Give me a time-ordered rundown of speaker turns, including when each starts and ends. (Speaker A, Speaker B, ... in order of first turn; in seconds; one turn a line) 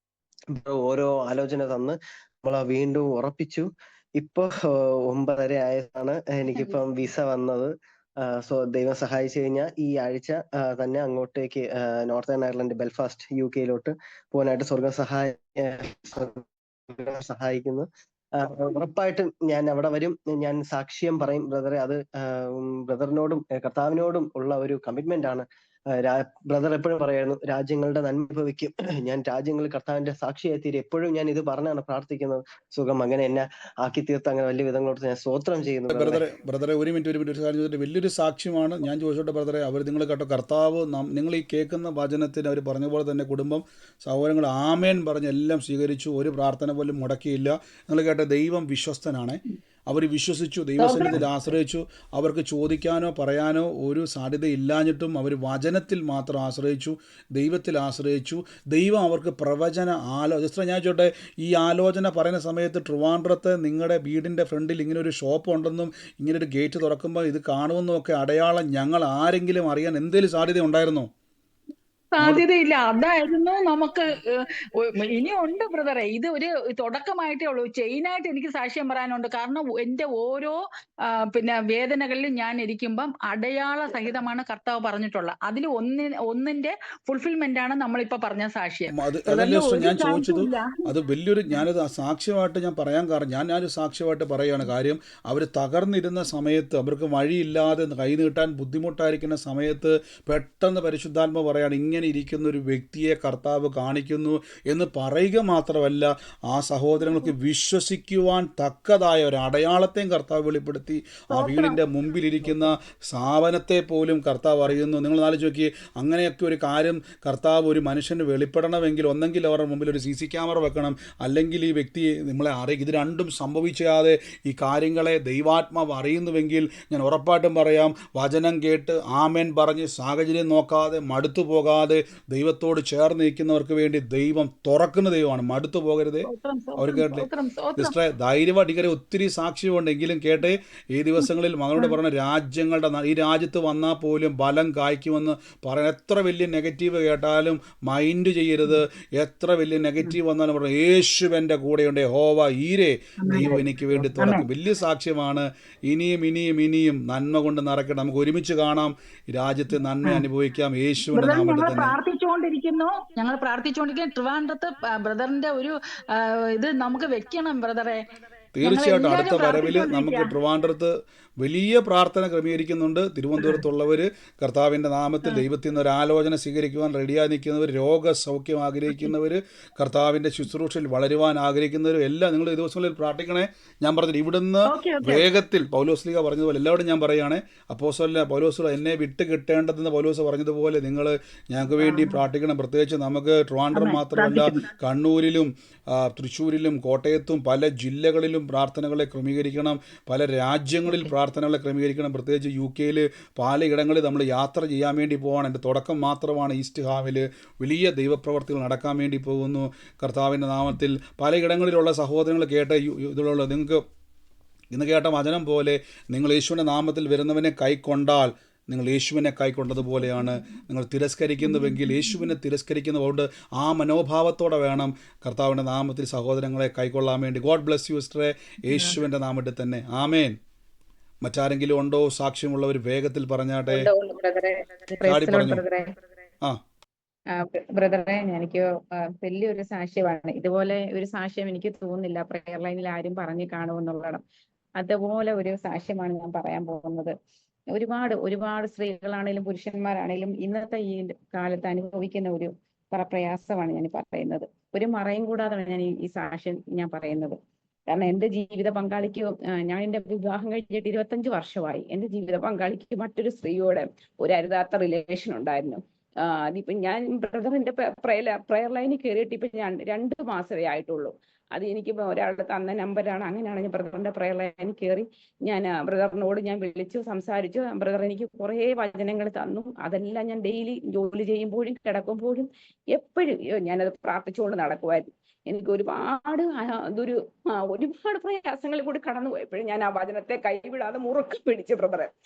Speaker A: 0.5-36.2
Speaker B: 35.9-71.1
Speaker C: 50.8-51.1
Speaker C: 72.1-74.2
Speaker C: 74.8-80.6
Speaker C: 81.1-90.8
Speaker B: 88.9-162.0
Speaker C: 136.3-137.9
Speaker C: 153.2-154.4
Speaker C: 161.1-168.0
Speaker B: 168.6-213.8
Speaker C: 168.6-170.3
Speaker C: 184.7-185.2
Speaker C: 191.8-192.2
Speaker C: 193.8-194.6
Speaker B: 214.7-230.4
Speaker B: 231.2-233.9
Speaker D: 233.7-236.0
Speaker B: 235.0-235.7
Speaker D: 237.3-244.2
Speaker D: 244.8-247.1
Speaker D: 247.7-292.1